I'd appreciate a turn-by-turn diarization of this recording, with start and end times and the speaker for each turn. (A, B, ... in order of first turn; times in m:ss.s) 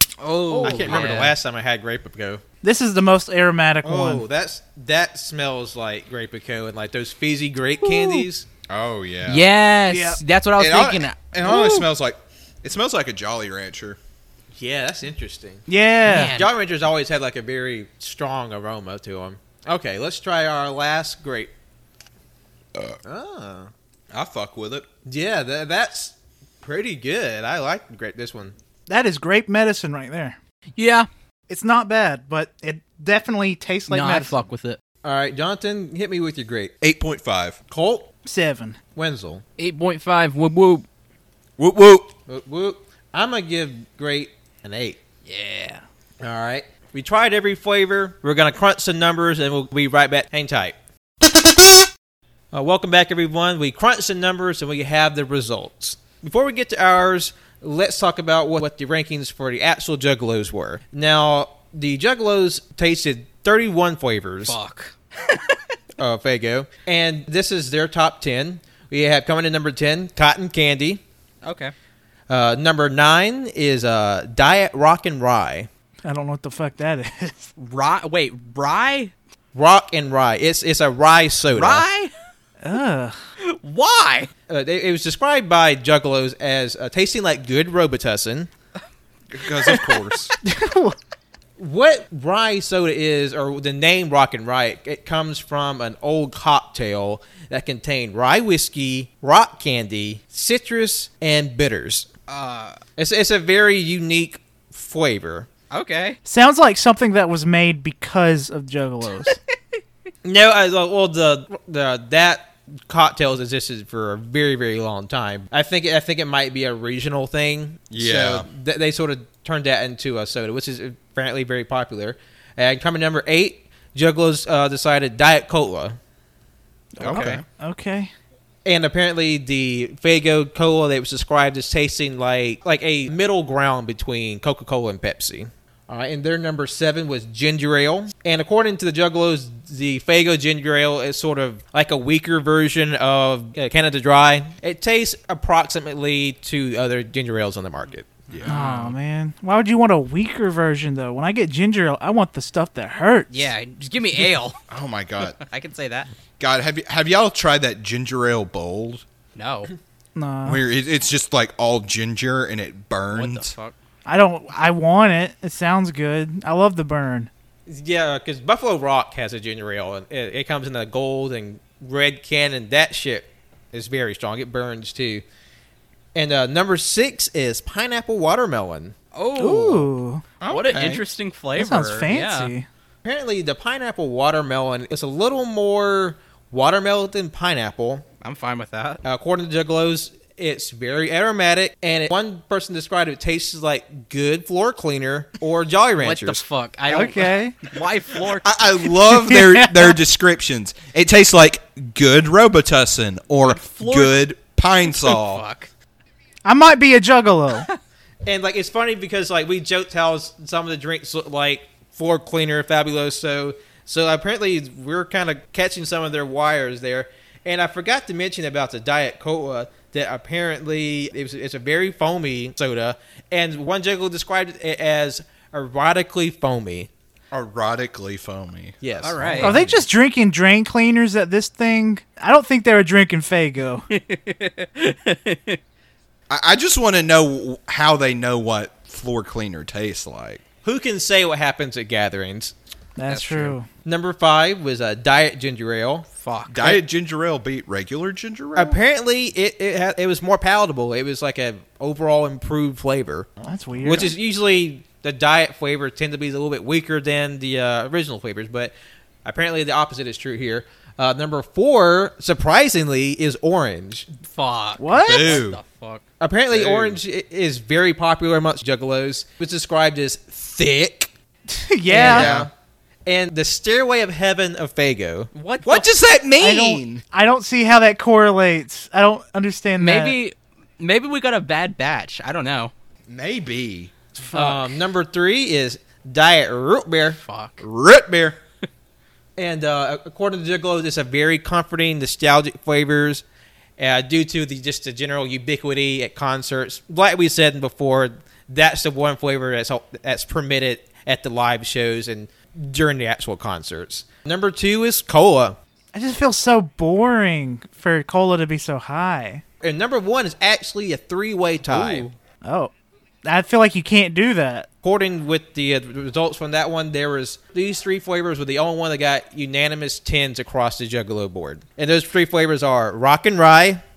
0:00.2-0:01.3 A
0:00.5-0:01.1 B
0:00.6-0:02.4 C
0:02.6-0:04.2 B
0:03.8-0:08.4 C
0:07.8-0:08.2 B
0:08.7-0:09.5 D
0:09.2-0:11.2 A
0:09.9-0:10.2 B
0:10.6-0:14.0 D
0:11.4-0:11.9 B
0:14.6-0:21.5 C
0:15.7-0:16.4 B
0:16.0-0:16.5 A
0:23.0-0:23.7 C
0:24.1-0:24.9 D
0:25.0-0:28.5 C
0:28.9-0:30.4 B
0:30.8-0:31.1 A
0:31.5-0:34.4 B
0:33.9-0:34.8 A
0:35.0-0:36.7 C
0:36.8-0:37.6 D
0:37.7-0:38.1 C
0:38.2-0:38.8 B
0:39.0-0:39.4 C
0:39.6-0:40.8 A
0:41.6-0:42.1 D
0:42.3-0:45.0 C
0:45.2-0:45.8 A
0:46.2-0:50.7 C
0:52.5-1:04.6 C
1:04.5-1:05.6 A
1:06.0-1:11.0 C
1:11.4-1:11.7 A
1:12.3-1:15.7 C
1:16.0-1:17.5 B
1:17.6-1:19.1 A
1:19.5-1:21.8 C
1:21.5-1:22.1 A
1:22.6-1:23.2 B
1:23.4-1:24.3 A
1:24.5-1:28.5 C
1:29.3-1:30.3 D
1:30.4-1:31.0 B
1:31.6-1:42.1 C
1:42.3-1:42.8 A
1:43.0-1:45.5 C
1:45.7-1:46.2 A
1:46.2-1:49.4 B
1:50.2-2:06.0 C
1:57.9-1:58.4 D
2:07.0-2:08.1 B
2:07.0-2:07.4 D
2:07.1-2:07.4 C
2:08.6-2:28.1 C
2:28.3-2:28.6 D
2:28.4-2:29.0 A
2:28.4-2:33.5 B
2:33.3-2:34.6 A
2:34.7-2:35.4 D
2:35.4-2:36.1 A
2:36.4-2:39.0 D
2:39.3-2:39.7 A
2:40.1-2:40.6 B
2:40.4-2:43.5 D
2:43.1-2:43.7 A
2:44.0-2:47.3 B
2:47.7-2:55.2 C
2:56.1-2:58.9 C
2:59.1-2:59.9 A
2:59.4-3:00.2 B
3:00.4-3:01.0 D
3:00.5-3:02.5 A
3:01.6-3:02.7 B
3:03.0-3:08.0 C
3:08.2-3:09.0 A
3:09.0-3:16.4 C
3:16.0-3:18.5 A
3:16.9-3:17.6 B
3:18.4-3:25.4 D
3:19.0-3:20.0 B
3:23.4-3:24.2 A
3:24.9-3:25.7 A
3:26.4-3:27.7 B
3:28.2-3:46.9 C
3:47.3-3:49.8 D
3:48.8-3:49.5 C
3:49.0-3:49.6 A
3:49.4-3:53.8 B
3:53.9-3:55.6 A
3:56.3-4:00.4 D
4:00.6-4:02.5 C
4:03.0-4:03.7 B
4:03.1-4:03.6 A
4:03.8-4:06.1 C
4:06.2-4:06.8 A
4:06.5-4:08.8 D
4:08.5-4:13.3 C
4:13.4-4:14.1 B
4:13.8-4:18.7 C
4:19.2-4:24.1 C
4:24.2-4:26.0 A
4:24.8-4:25.4 B
4:25.0-4:25.6 D
4:26.2-4:31.1 C
4:26.5-4:27.0 D
4:31.5-4:32.3 B
4:31.9-4:32.5 C
4:32.0-4:32.5 D
4:33.0-4:35.3 C
4:35.3-4:35.9 A
4:35.6-4:37.0 D
4:36.4-4:40.2 B
4:39.8-4:42.7 A
4:43.1-4:43.9 D
4:44.2-4:44.8 B
4:44.3-4:47.2 C
4:47.2-4:47.6 A
4:47.6-4:48.4 D
4:49.4-4:53.2 C
4:53.8-5:05.6 C
5:05.9-5:09.4 B
5:09.6-5:12.0 C
5:11.7-5:12.1 A
5:12.4-5:12.7 B
5:13.2-5:14.7 B
5:14.8-5:23.8 C